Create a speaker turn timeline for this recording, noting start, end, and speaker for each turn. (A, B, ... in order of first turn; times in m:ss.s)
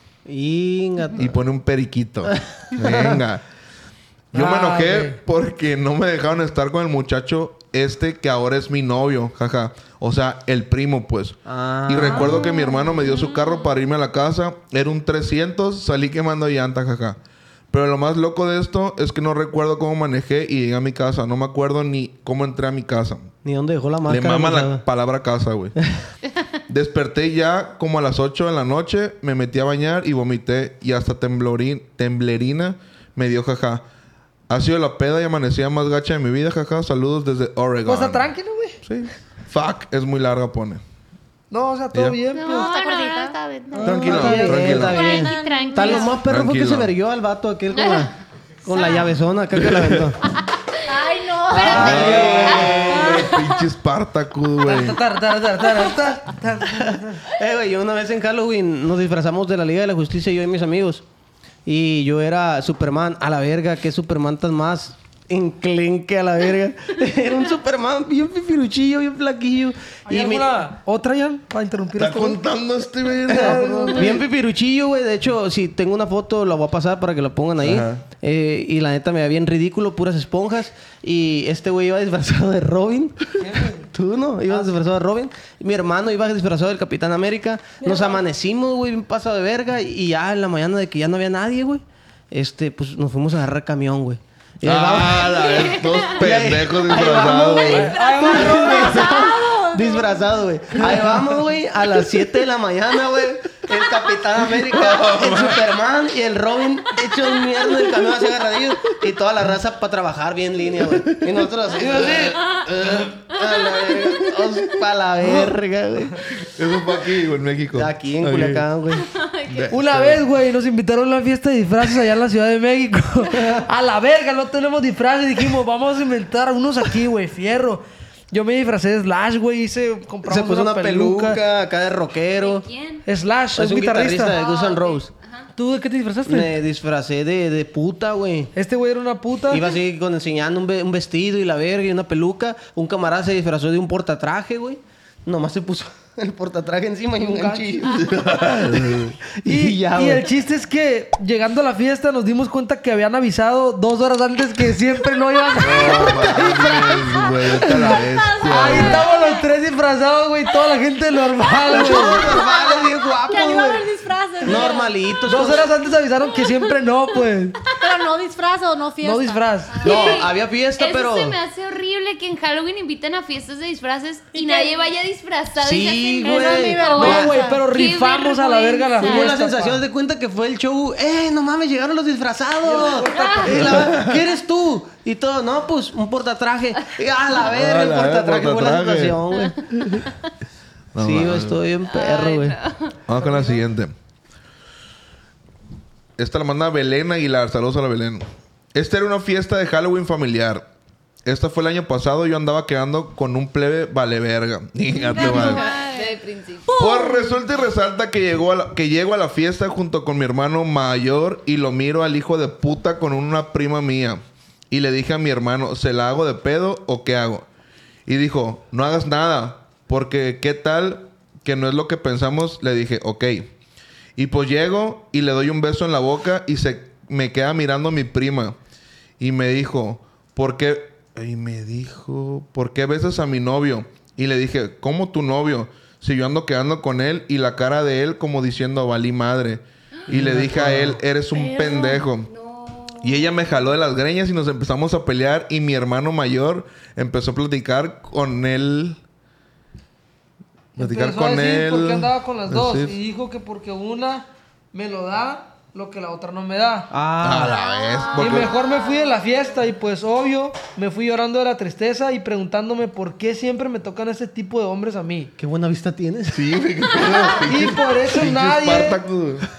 0:00.3-0:01.4 A
0:01.2-0:03.4 B
0:02.8-0:03.2 A
0:04.3-0:17.2 B
0:04.4-0:05.2 C
0:11.5-0:12.5 A
0:12.4-0:13.7 D
0:17.7-0:23.3 B
0:23.4-0:24.8 A
0:24.0-0:25.8 B
0:26.7-0:33.8 B
0:34.5-0:38.3 B
0:37.9-0:38.8 C
0:38.8-0:40.8 B
0:41.5-0:42.7 C
0:41.9-0:42.2 B
0:42.3-0:46.2 E
0:42.4-0:43.4 D
0:43.7-0:44.8 C
0:43.8-0:50.2 A
0:43.8-0:45.1 B
0:44.7-0:46.2 D
0:46.2-0:46.9 B
0:47.7-0:48.1 E
0:48.7-0:49.1 E
0:49.6-0:50.1 B
0:50.8-0:52.1 D
0:51.5-0:53.3 E
0:51.6-0:53.3 A
0:51.6-0:55.0 B
0:51.8-0:52.9 C
0:52.9-0:53.4 D
0:54.6-0:57.2 C
0:56.7-1:01.0 A
1:01.7-1:10.5 A
1:10.1-1:12.4 C
1:11.9-1:14.2 B
1:13.3-1:14.2 C
1:13.3-1:35.6 A
1:17.6-1:18.0 B
1:23.4-1:23.9 C
1:34.6-1:38.0 B
1:36.2-1:56.2 A
1:37.7-1:39.1 C
1:38.0-1:40.1 D
1:44.4-1:45.7 B
1:51.1-1:51.5 B
1:51.8-1:52.4 C
1:52.8-1:53.1 B
1:56.4-1:58.7 B
1:57.7-1:59.1 A
1:59.0-1:59.8 E
1:59.5-2:00.2 B
1:59.7-2:11.4 C
2:10.2-2:12.7 A
2:12.3-2:13.0 E
2:13.0-2:14.4 C
2:13.6-2:15.1 A
2:14.3-2:15.5 E
2:15.6-2:16.6 C
2:16.2-2:18.5 A
2:18.6-2:19.6 C
2:19.5-2:30.3 A
2:27.2-2:27.7 C
2:27.9-2:29.2 B
2:29.4-2:42.2 C
2:35.6-2:39.0 B
2:37.5-2:39.5 D
2:41.7-2:43.9 A
2:41.7-2:44.9 D
2:44.4-2:45.7 A
2:45.3-2:47.6 C
2:47.8-2:50.0 D
2:49.0-2:49.9 C
2:49.8-2:51.4 A
2:49.8-2:59.1 E
2:54.3-2:54.8 D
2:55.6-2:57.0 A
2:56.2-2:57.9 D
2:56.9-2:59.8 C
2:58.9-2:59.3 D
2:59.0-3:09.6 A
3:02.6-3:04.0 C
3:03.0-3:03.5 E
3:03.7-3:04.2 B
3:07.4-3:10.1 B
3:11.0-3:11.6 B
3:11.0-3:12.6 A
3:11.8-3:13.0 E
3:13.1-3:13.9 B
3:16.2-3:20.7 B
3:21.3-3:25.6 B
3:25.1-3:27.4 D
3:25.2-3:26.9 E
3:26.8-3:37.5 B
3:38.1-3:43.5 B
3:44.2-3:48.6 B
3:49.2-4:02.3 B
4:00.1-4:00.9 C
4:01.3-4:02.0 D
4:02.3-4:03.6 E
4:03.0-4:09.0 B
4:10.8-4:13.0 B
4:10.8-4:16.9 C
4:16.9-4:17.6 A
4:17.2-4:18.5 B
4:17.5-4:18.7 E
4:18.2-4:25.3 C
4:25.4-4:27.3 A
4:26.3-4:29.5 B
4:27.4-4:29.0 C